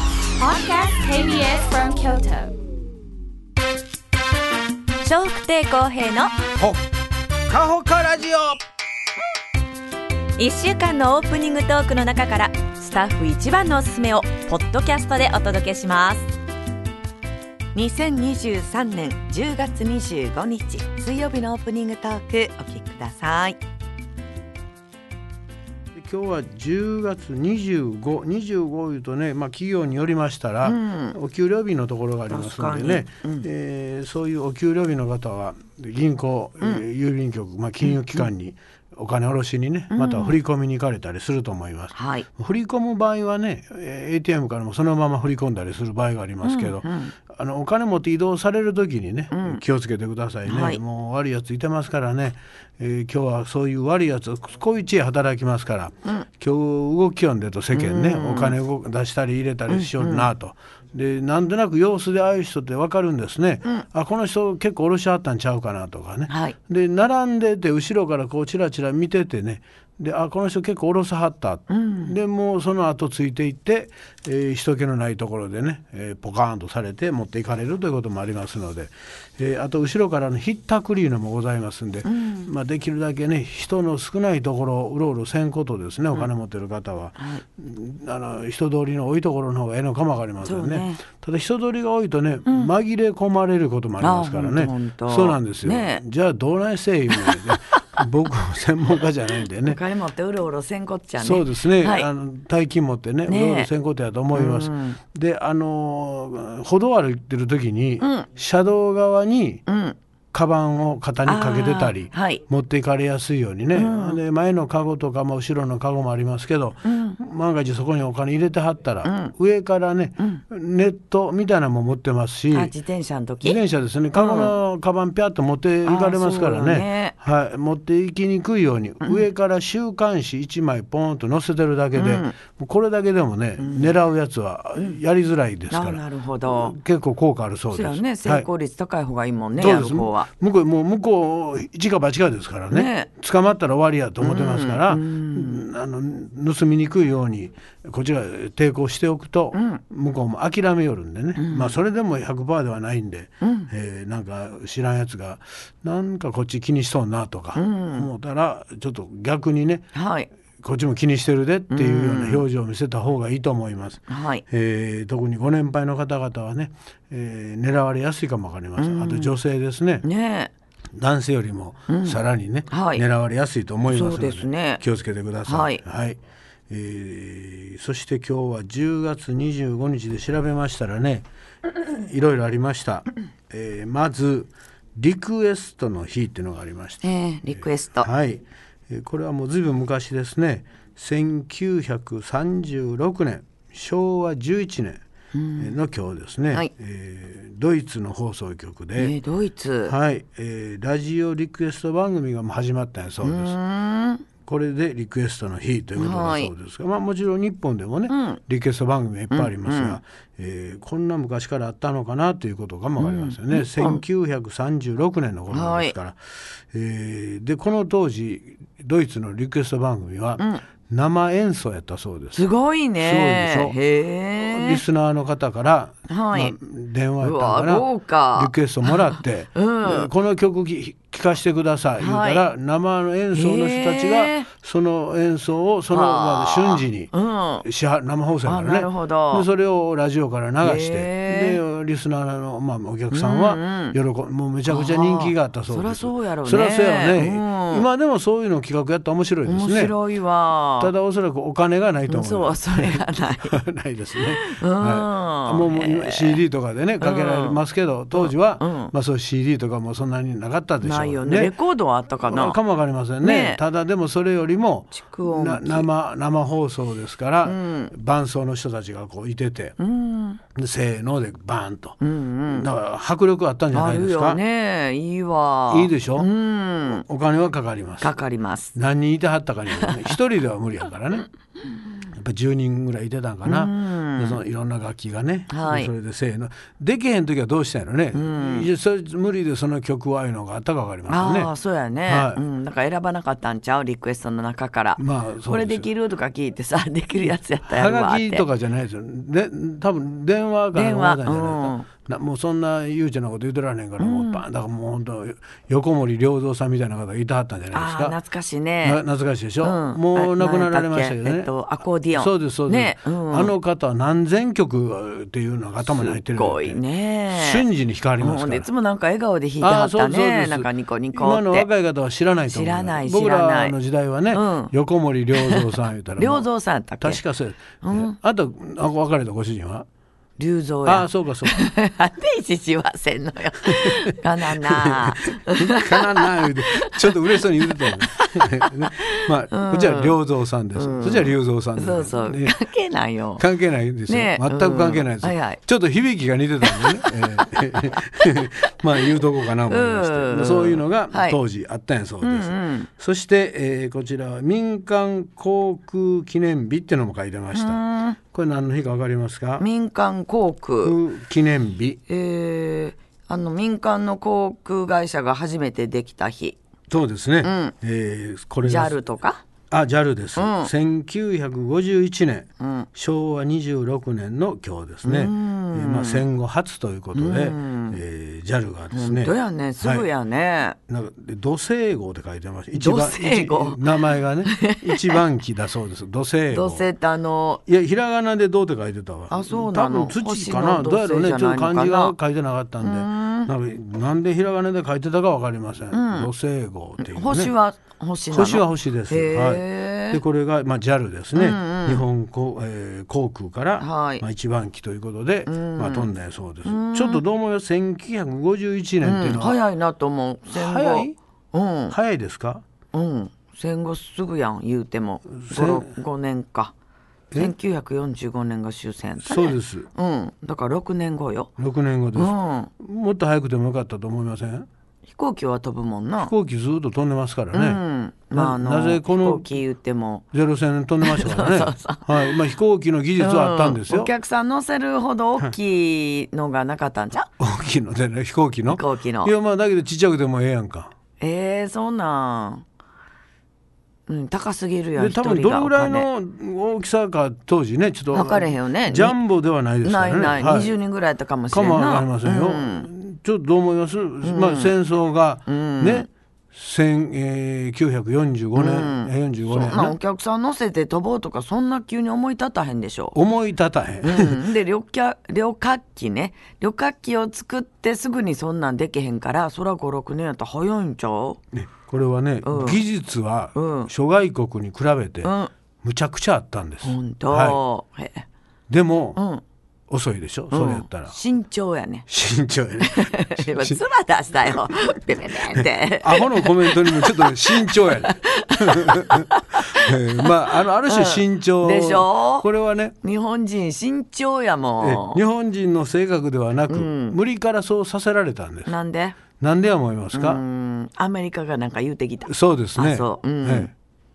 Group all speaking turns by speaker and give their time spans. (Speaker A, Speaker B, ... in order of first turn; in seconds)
Speaker A: 0.4-2.5
Speaker B: 5.0-6.3, 10.4-16.2, 17.8-23.6, 30.6-31.2, 32.3-33.5, 37.8-38.3, 39.9-40.4, 41.9-42.3, 46.4-47.1, 49.3-49.6, 50.5-50.8, 57.7-58.5, 59.7-60.3, 66.3-66.6, 71.7-72.2, 82.0-82.5, 87.2-87.4, 90.4-91.0, 92.5-92.7, 94.0-96.0, 97.1-97.4, 99.6-102.1, 103.3-103.7, 104.3-105.0, 108.0-108.3, 109.7-110.0, 111.3-112.4, 113.8-114.2, 116.8-117.2, 119.0-119.3, 122.5-123.6, 124.1-124.5, 125.8-127.2, 131.9-132.3, 133.6-133.9, 135.7-136.7, 137.7-140.3, 142.7-143.1, 144.2-145.7, 149.5-149.8, 151.4-151.8, 153.4-153.7, 157.6-158.1, 159.9-160.3, 161.7-162.4, 164.1-164.4, 168.8-169.3, 170.0-170.5, 171.9-173.0, 173.9-174.8, 175.4-175.8, 187.0-188.1, 195.3-195.8, 199.0-199.9, 203.2-204.2, 206.0-206.5, 208.1-208.4, 209.3-210.0, 213.0-214.0, 215.5-215.9, 222.3-224.8, 226.1-226.6, 227.2-230.1, 232.0-232.4, 233.3-234.5, 235.9-237.7, 238.4-239.5, 240.6-241.6, 243.1-244.0, 244.7-247.9, 249.4-250.9, 252.1-253.6, 254.3-256.4, 257.0-257.6, 258.1-258.9, 260.8-262.6, 263.2-263.6, 264.9-265.9, 267.4-267.9, 269.8-270.4, 272.0-272.7, 273.7-277.1, 278.0-278.8, 279.8-280.1, 283.4-284.4, 285.5-285.9, 288.1-288.7, 291.1-298.5, 300.7-301.9, 304.0-304.4, 307.7-309.0, 309.6-313.5, 315.9-317.6, 318.2-321.7, 322.5-323.8, 324.3-324.7, 325.4-327.2, 327.8-328.1, 330.4-340.2, 340.8-343.5, 344.1-345.6, 346.6-347.6, 349.7-351.4, 352.2-352.9, 357.5-358.2, 359.6-361.0, 362.1-366.6, 367.4-367.8, 368.6-369.4, 370.4-370.7, 372.6-372.9, 375.0-376.2, 377.1-378.0, 378.9-380.8, 382.7-385.2, 386.5-387.6, 389.3-392.2, 392.8-393.5, 395.9-396.3, 397.0-400.2, 401.4-402.0, 403.8-404.2, 405.5-406.1, 406.6-407.2, 409.0-412.0, 412.9-416.7, 417.4-421.5, 422.1-422.7, 425.1-426.3, 427.5-430.2, 431.0-432.4, 433.2-437.3, 438.7-439.3, 441.2-442.6, 444.1-446.1, 448.1-449.2, 449.8-452.9, 454.2-454.7, 455.5-456.1, 458.6-463.2, 464.0-471.4, 472.4-472.8, 473.6-473.9, 475.2-475.5, 476.8-478.2, 479.2-479.4, 480.5-482.1, 482.8-492.5, 493.0-495.2, 496.7-497.2, 498.7-499.2, 500.1-503.7
Speaker C: 7.5-8.6, 26.0-99.8, 101.2-109.6, 110.3-122.7, 123.4-138.5, 139.6-159.8, 160.6-170.1, 170.9-195.0, 195.6-199.2, 199.8-203.6, 204.4-216.2, 216.7-222.4, 223.0-223.8, 224.3-237.1, 237.6-249.9, 250.8-261.5, 262.2-269.8, 270.6-274.4, 275.7-276.3, 276.9-278.2, 278.8-281.3, 282.1-291.5, 292.1-292.4, 295.0-295.9, 297.2-308.2, 308.8-311.5, 312.1-318.7, 319.6-329.9, 330.9-331.6, 334.4-342.6, 343.4-359.7, 360.8-362.0, 366.9-369.0, 369.7-380.1, 380.9-386.9, 387.7-397.5, 398.3-409.6, 410.5-411.2, 411.9-412.6, 415.4-415.9, 419.2-419.9, 421.6-424.7, 426.2-427.8, 428.3-429.5, 430.3-434.1, 437.4-440.9, 445.0-450.7, 451.5-460.0, 463.1-464.4, 471.5-475.3, 475.8-477.6, 478.7-479.2, 479.9-481.1, 482.1-483.8, 484.4-484.7, 485.5-492.9, 494.8-498.7, 499.4-500.4, 502.3-503.7